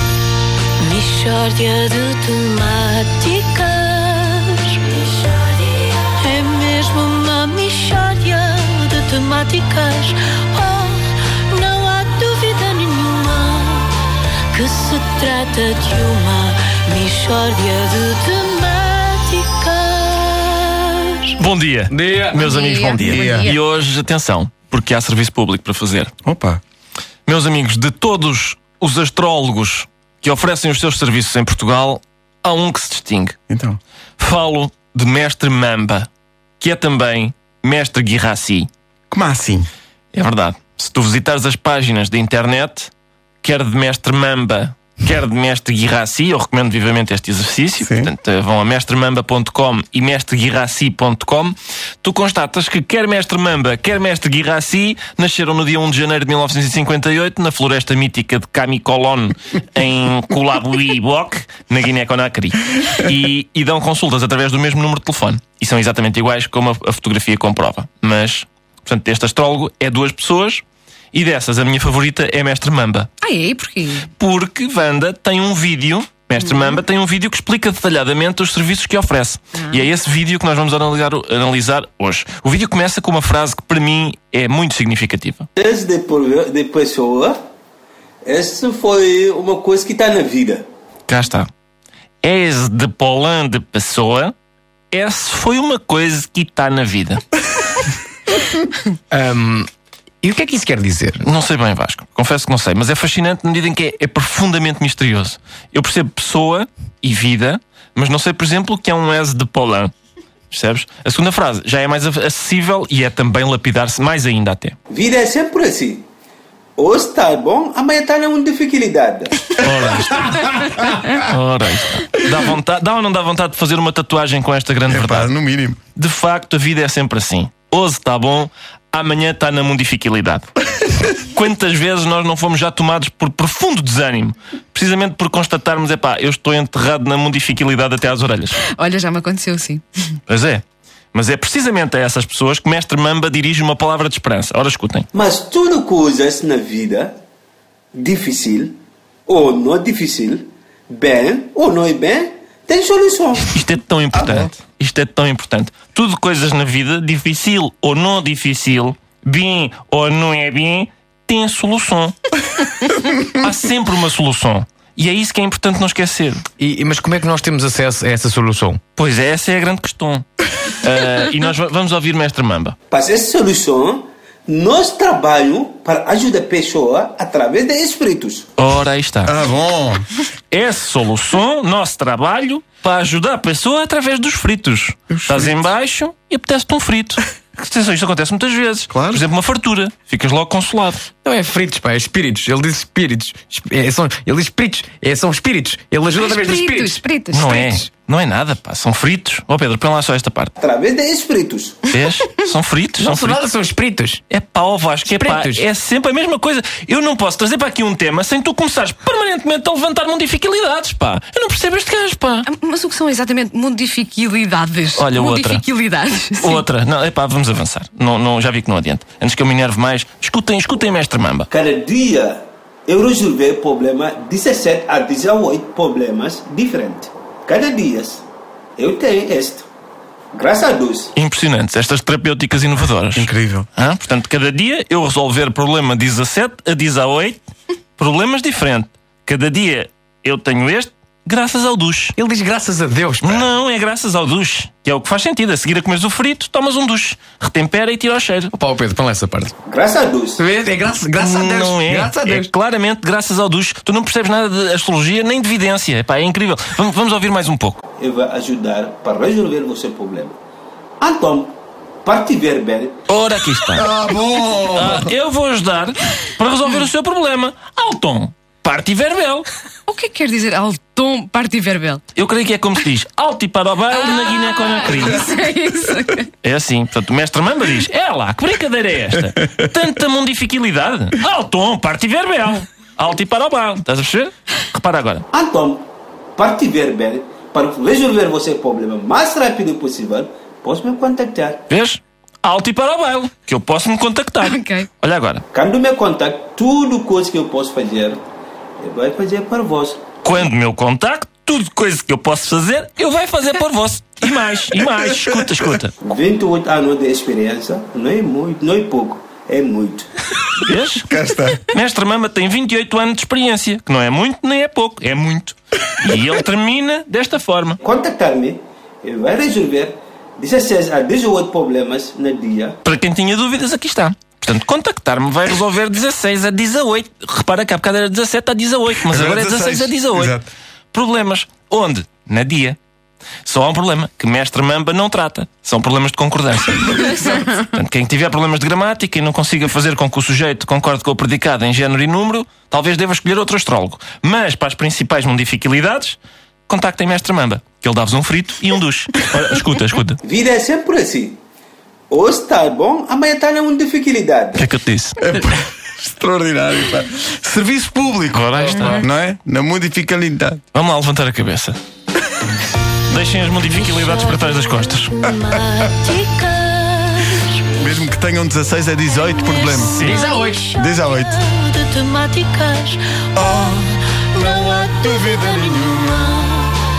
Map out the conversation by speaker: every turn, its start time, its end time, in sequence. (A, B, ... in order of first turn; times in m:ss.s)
0:00.8-0:13.9 A
0:14.5-0:21.4 A
0:21.4-0:26.1 B
0:21.9-0:22.5 C
0:22.4-0:23.6 D
0:22.9-0:23.5 E
0:26.2-0:26.6 E
0:27.2-0:33.4 B
0:33.5-0:33.8 E
0:34.2-0:36.1 B
0:36.6-0:38.7 B
0:39.1-0:39.7 E
0:40.1-0:42.9 B
0:43.4-1:13.1 B
0:47.8-0:48.1 E
1:13.2-1:14.1 D
1:14.2-1:25.5 B
1:16.4-1:16.8 D
1:19.6-1:19.9 D
1:25.6-1:27.4 F
1:28.2-1:30.6 F
1:31.1-1:31.5 B
1:32.2-1:34.3 B
1:34.9-1:37.2 B
1:39.1-1:39.7 C
1:40.2-1:41.2 C
1:41.2-1:49.9 B
1:50.5-1:54.8 B
1:54.9-1:56.0 F
1:56.8-1:59.6 F
1:59.6-2:05.3 B
2:04.9-2:05.8 E
2:06.0-2:10.5 B
2:11.2-2:18.6 B
2:18.6-2:20.2 D
2:20.3-2:20.6 B
2:21.1-2:25.1 B
2:25.1-2:27.2 F
2:27.9-2:28.8 F
2:29.3-2:33.5 F
2:33.5-2:42.2 B
2:43.3-2:46.4 B
2:46.6-2:48.8 C
2:49.0-2:50.2 B
2:50.8-2:52.8 B
2:52.9-2:58.5 F
2:58.6-2:59.3 B
2:59.2-3:00.1 E
3:00.5-3:11.1 B
3:05.1-3:05.7 E
3:11.2-3:17.0 C
3:16.2-3:17.9 D
3:17.3-3:20.5 B
3:20.6-3:21.9 F
3:21.9-3:23.4 B
3:23.0-3:24.2 C
3:24.3-3:32.5 B
3:25.1-3:25.6 C
3:32.5-3:36.6 D
3:35.0-3:35.6 B
3:36.4-3:41.5 B
3:41.5-3:48.2 F
3:48.8-3:49.6 F
3:50.3-3:51.1 F
3:51.1-3:57.4 B
3:53.1-3:53.7 E
3:58.0-4:02.2 B
4:02.2-4:03.5 C
4:03.2-4:08.5 B
4:08.5-4:09.5 C
4:09.6-4:10.4 F
4:10.4-4:12.5 C
4:11.2-4:17.8 B
4:18.0-4:20.4 F
4:21.0-4:21.5 F
4:22.0-4:23.0 F
4:23.1-4:23.9 B
4:23.7-4:25.1 E
4:24.7-4:29.5 B
4:29.9-4:32.0 D
4:32.1-4:35.4 B
4:34.2-4:36.3 D
4:36.4-4:45.2 B
4:45.3-4:45.8 F
4:46.4-4:51.6 F
4:51.7-4:55.4 B
4:54.4-4:54.9 D
4:55.5-4:58.2 F
4:58.8-5:00.0 F
5:00.2-5:06.0 B
5:05.0-5:05.4 E
5:06.0-5:10.1 F
5:10.6-5:11.0 B
5:11.1-5:11.7 E
5:11.7-5:17.8 B
5:17.8-5:22.8 F
5:22.8-5:30.4 B
5:29.1-5:30.5 E
5:30.9-5:32.8 B
5:33.4-5:50.2 B
5:50.2-5:51.4 F
5:52.1-5:54.6 F
5:54.5-5:55.2 B
5:55.2-6:00.6 E
5:58.3-5:59.1 B
6:00.7-6:01.8 B
6:03.1-6:05.2 B
6:03.6-6:07.8 A
6:07.8-6:10.2 E
6:09.1-6:16.8 A
6:09.8-6:10.3 B
6:10.8-6:11.4 E
6:13.4-6:16.4 E